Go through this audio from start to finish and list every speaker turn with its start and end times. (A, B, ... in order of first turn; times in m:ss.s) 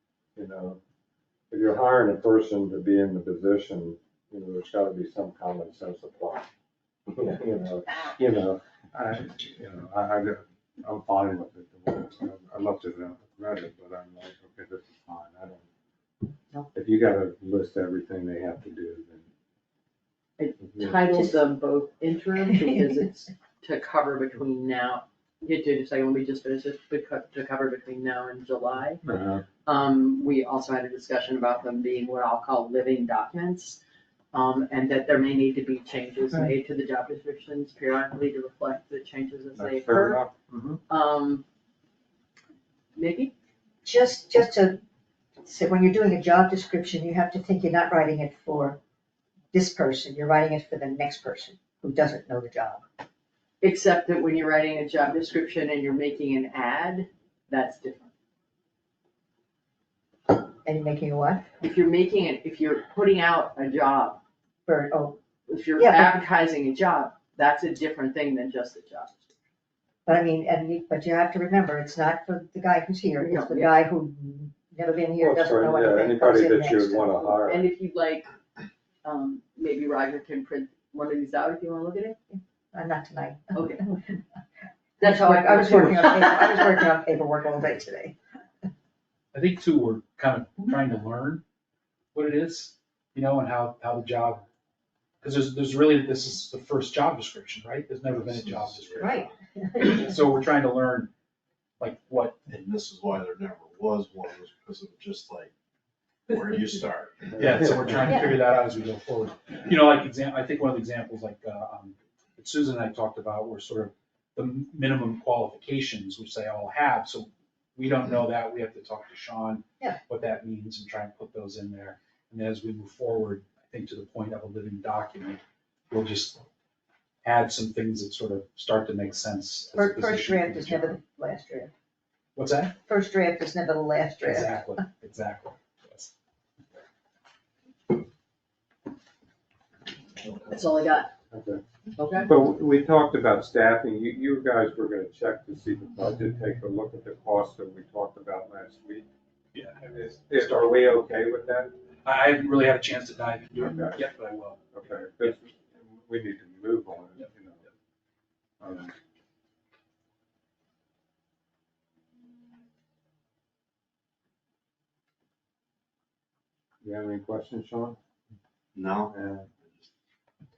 0:00.4-0:00.8 A
0:01.5-0:06.5 A
0:07.1-0:15.6 A
0:16.7-0:19.3 A
0:20.4-0:29.0 B
0:29.0-0:29.4 A
0:29.6-0:33.8 B
0:34.3-0:40.2 B
0:39.6-0:40.8 A
0:40.9-0:41.4 B
0:42.9-0:43.3 B
0:43.8-0:44.8 C
0:45.4-0:48.8 C
0:49.5-0:52.8 C
0:53.6-0:58.1 B
1:00.6-1:01.4 C
1:01.6-1:04.2 B
1:04.6-1:05.2 C
1:05.5-1:09.3 B
1:05.8-1:06.2 C
1:10.0-1:17.1 C
1:13.2-1:13.7 B
1:15.2-1:17.7 A
1:17.2-1:18.3 B
1:19.0-1:22.2 B
1:22.3-1:24.0 C
1:23.5-1:23.9 B
1:25.0-1:28.2 C
1:25.0-1:26.7 B
1:29.3-1:31.4 D
1:32.1-1:34.4 D
1:35.2-1:39.3 D
1:38.1-1:39.3 E
1:39.0-1:40.1 C
1:39.9-1:41.1 D
1:41.8-1:42.4 D
1:42.5-1:45.5 E
1:46.3-1:48.0 E
1:47.4-2:05.4 D
1:47.4-1:48.0 A
1:48.0-1:48.3 C
2:05.9-2:06.4 D
2:07.2-2:11.0 D
2:09.7-2:11.7 C
2:12.4-2:12.8 D
2:12.9-2:14.8 C
2:14.2-2:16.1 D
2:20.5-2:21.1 B
2:21.3-2:21.6 A
2:22.0-2:22.3 B
2:22.2-2:29.0 A
2:29.5-2:30.9 D
2:29.8-2:31.7 A
2:32.0-2:35.3 D
2:33.6-2:34.1 A
2:34.7-2:37.6 A
2:38.6-2:38.9 A
2:46.8-2:48.0 A
2:48.7-2:49.1 E
2:49.1-2:49.5 A